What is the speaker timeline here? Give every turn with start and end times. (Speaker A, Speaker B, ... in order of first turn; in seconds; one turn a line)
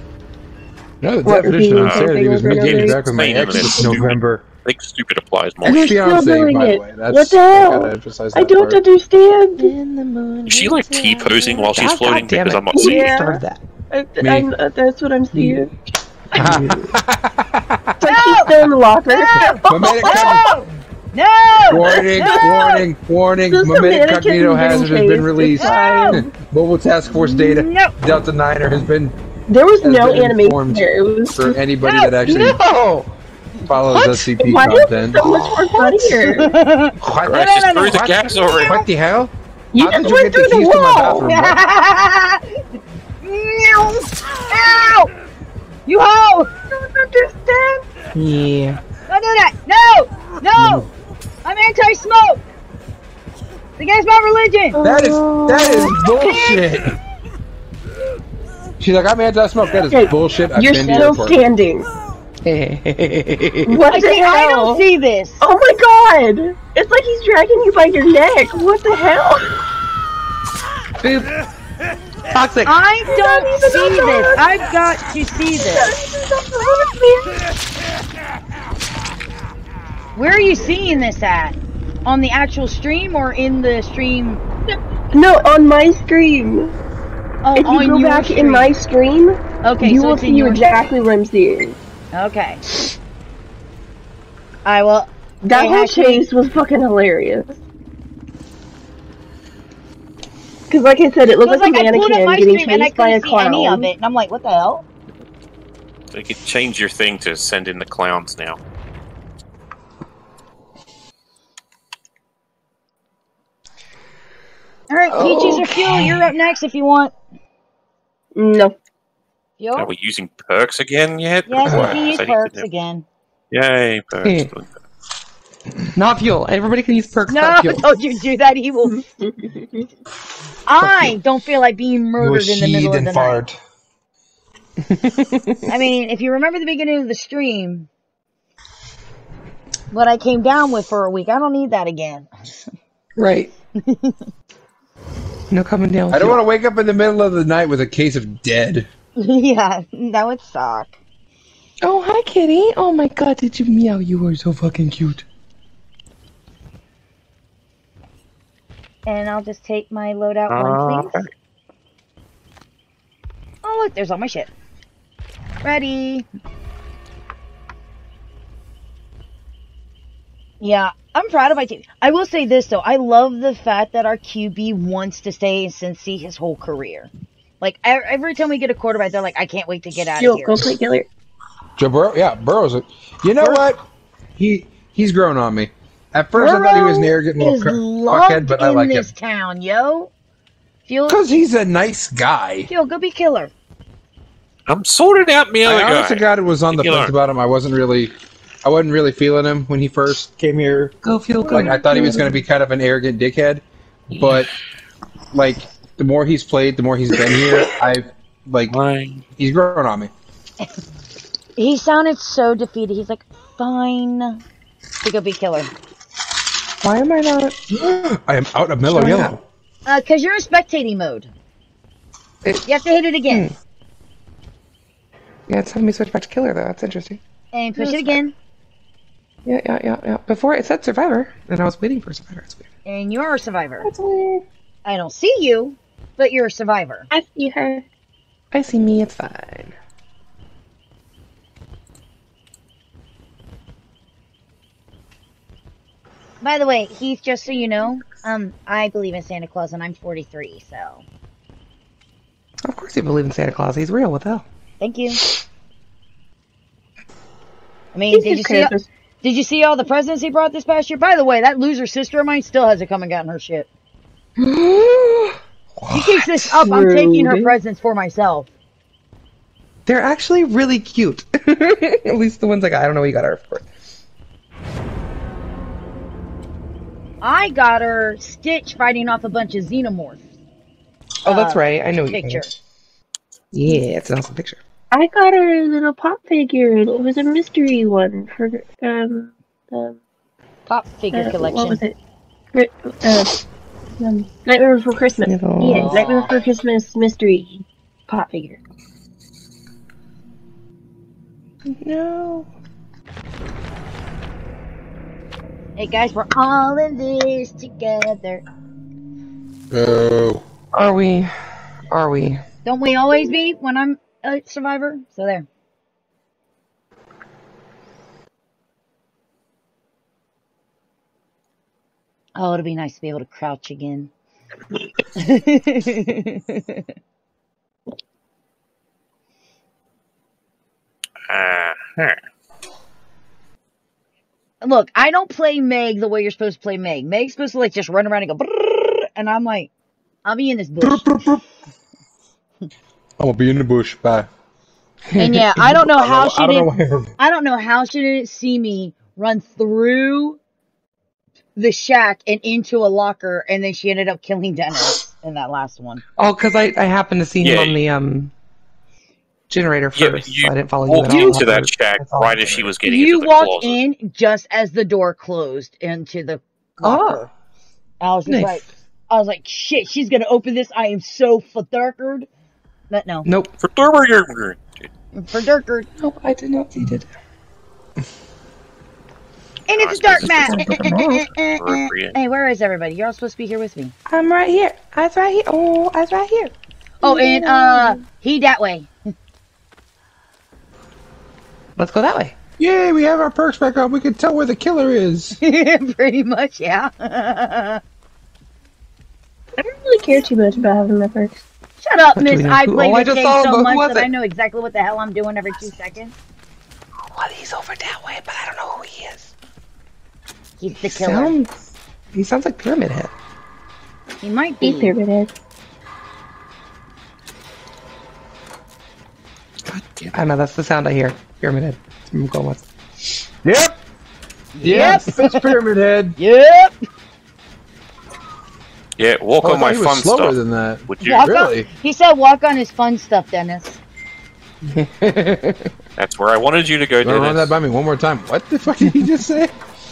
Speaker A: 1.0-4.4
Speaker B: 1.2-4.0
Speaker C: 1.7-6.0
Speaker A: 5.6-8.8
Speaker B: 5.6-9.7
Speaker D: 9.6-13.6
Speaker C: 10.5-13.1
Speaker B: 12.7-15.7
Speaker A: 14.2-14.5
Speaker D: 15.3-15.6
Speaker B: 16.3-16.7
Speaker D: 16.3-16.9
Speaker A: 16.4-17.9
Speaker B: 18.0-20.5
Speaker E: 18.0-18.5
Speaker E: 19.1-22.7
Speaker A: 19.7-20.5
Speaker A: 21.7-29.1
Speaker B: 21.9-22.8
Speaker B: 23.5-26.3
Speaker E: 25.6-26.2
Speaker E: 27.1-27.9
Speaker B: 29.5-31.6
Speaker A: 29.8-32.6
Speaker E: 31.8-32.3
Speaker D: 32.2-33.1
Speaker A: 33.7-35.5
Speaker D: 33.9-34.6
Speaker B: 34.4-36.6
Speaker D: 35.1-36.3
Speaker E: 36.3-38.9
Speaker A: 37.0-41.6
Speaker C: 37.2-38.8
Speaker B: 39.7-41.2
Speaker D: 40.0-41.0
Speaker E: 41.1-42.6
Speaker E: 43.2-45.1
Speaker E: 45.9-46.5
Speaker B: 46.7-47.9
Speaker D: 48.1-48.8
Speaker E: 49.1-50.9
Speaker A: 50.5-50.9
Speaker E: 51.4-52.4
Speaker E: 53.8-54.8
Speaker B: 54.7-56.4
Speaker A: 54.8-57.0
Speaker D: 55.2-55.7
Speaker E: 56.1-56.6
Speaker A: 58.8-61.4
Speaker B: 59.8-61.9
Speaker D: 62.4-63.8
Speaker B: 63.6-64.8
Speaker E: 63.9-65.4
Speaker B: 65.4-69.6
Speaker D: 71.0-71.3
Speaker D: 72.3-72.7
Speaker E: 72.6-75.9
Speaker B: 73.0-74.6
Speaker B: 75.6-77.5
Speaker E: 80.2-84.4
Speaker B: 85.1-86.8
Speaker E: 87.4-88.7
Speaker B: 87.5-91.8
Speaker E: 89.6-90.9
Speaker E: 92.1-92.6
Speaker E: 94.6-96.3
Speaker B: 95.4-97.5
Speaker B: 100.7-103.9
Speaker E: 101.4-104.8
Speaker C: 106.1-108.6
Speaker E: 114.9-117.1
Speaker D: 115.1-116.3
Speaker B: 118.3-118.8
Speaker E: 119.6-119.9
Speaker C: 119.8-122.6
Speaker E: 121.5-123.0
Speaker A: 121.6-122.0
Speaker C: 123.5-124.7
Speaker D: 124.2-124.5
Speaker D: 125.9-127.8
Speaker E: 127.3-129.0
Speaker B: 128.9-129.9
Speaker E: 130.7-133.4
Speaker A: 130.8-131.1
Speaker A: 132.2-133.6
Speaker D: 134.8-135.7
Speaker E: 135.7-137.9
Speaker E: 139.9-142.3
Speaker D: 143.2-143.5
Speaker E: 143.8-144.2
Speaker D: 145.5-146.4
Speaker A: 146.1-148.9
Speaker E: 149.2-151.0
Speaker D: 151.8-155.2
Speaker E: 159.1-161.2
Speaker C: 160.5-161.3
Speaker E: 163.6-164.5
Speaker E: 165.6-166.2
Speaker E: 170.6-180.6
Speaker B: 180.2-181.1
Speaker A: 181.8-183.8
Speaker A: 184.3-189.1
Speaker E: 186.3-190.1
Speaker E: 190.8-191.2
Speaker A: 191.1-192.7
Speaker E: 192.7-193.5
Speaker C: 194.7-197.1
Speaker A: 195.6-201.0
Speaker D: 201.0-202.3
Speaker B: 201.4-202.2
Speaker A: 201.5-204.5
Speaker A: 205.3-208.8
Speaker C: 208.7-209.2
Speaker A: 209.3-210.1
Speaker E: 211.6-214.4
Speaker E: 215.0-215.7
Speaker D: 216.8-217.6
Speaker A: 217.7-219.4
Speaker D: 218.9-219.3
Speaker E: 219.8-221.3
Speaker D: 222.4-222.7
Speaker E: 222.6-223.5
Speaker D: 223.3-223.5
Speaker D: 225.5-227.2
Speaker E: 227.5-228.3
Speaker D: 227.8-228.2
Speaker D: 229.4-232.7
Speaker E: 232.8-233.9
Speaker D: 233.8-234.4
Speaker E: 234.8-237.1
Speaker B: 237.1-237.8
Speaker D: 238.5-239.7
Speaker E: 246.4-251.0
Speaker D: 252.7-254.4
Speaker E: 254.8-255.2
Speaker E: 257.9-263.7
Speaker B: 258.1-258.9
Speaker D: 264.4-265.4
Speaker A: 265.8-266.4
Speaker E: 265.9-268.5
Speaker B: 266.6-267.5
Speaker D: 269.9-273.7
Speaker E: 277.2-280.2
Speaker E: 281.2-282.5
Speaker D: 281.2-282.5
Speaker D: 283.5-284.6
Speaker B: 284.9-290.0
Speaker E: 290.7-291.8
Speaker B: 291.1-292.0
Speaker B: 292.5-293.4
Speaker B: 294.0-298.6
Speaker D: 295.2-296.0
Speaker E: 295.6-296.4
Speaker D: 301.6-302.5
Speaker E: 305.8-308.4
Speaker A: 309.7-310.4
Speaker D: 310.7-311.3
Speaker D: 311.9-312.4
Speaker E: 312.6-315.4
Speaker E: 322.4-324.1
Speaker E: 325.1-326.8
Speaker C: 331.3-332.2
Speaker E: 334.6-339.7
Speaker E: 340.2-341.1
Speaker A: 340.8-341.4
Speaker A: 343.2-344.3
Speaker E: 345.1-350.4
Speaker A: 345.6-347.1
Speaker E: 351.6-356.0
Speaker D: 356.2-358.3
Speaker C: 357.4-357.8
Speaker D: 359.5-362.7
Speaker C: 359.9-363.8
Speaker E: 362.8-367.3
Speaker D: 366.8-367.3
Speaker E: 368.0-372.3
Speaker D: 368.2-368.6
Speaker E: 372.9-373.3
Speaker D: 373.2-373.6
Speaker C: 373.6-374.7
Speaker E: 375.1-375.9
Speaker D: 376.0-377.1
Speaker E: 379.7-383.9
Speaker C: 379.8-380.9
Speaker D: 380.2-381.3
Speaker C: 381.6-382.1
Speaker D: 384.1-386.5
Speaker E: 387.0-388.9
Speaker B: 387.1-387.9
Speaker D: 387.1-387.6
Speaker D: 391.8-392.4
Speaker A: 392.6-395.4
Speaker E: 395.4-397.8
Speaker B: 399.6-401.4
Speaker E: 401.8-406.1
Speaker D: 402.1-404.1
Speaker D: 407.1-409.3
Speaker E: 410.6-411.3
Speaker D: 410.8-411.6
Speaker D: 412.1-413.1
Speaker E: 414.2-414.9
Speaker B: 414.6-415.3
Speaker A: 419.7-420.1
Speaker D: 420.1-422.6
Speaker A: 423.4-423.7
Speaker E: 424.6-425.4
Speaker A: 424.6-426.2
Speaker E: 426.2-426.7
Speaker C: 429.0-430.4
Speaker A: 429.4-431.7
Speaker C: 430.9-431.3
Speaker E: 431.0-433.8
Speaker D: 434.7-435.7
Speaker C: 436.0-437.5
Speaker A: 437.0-439.5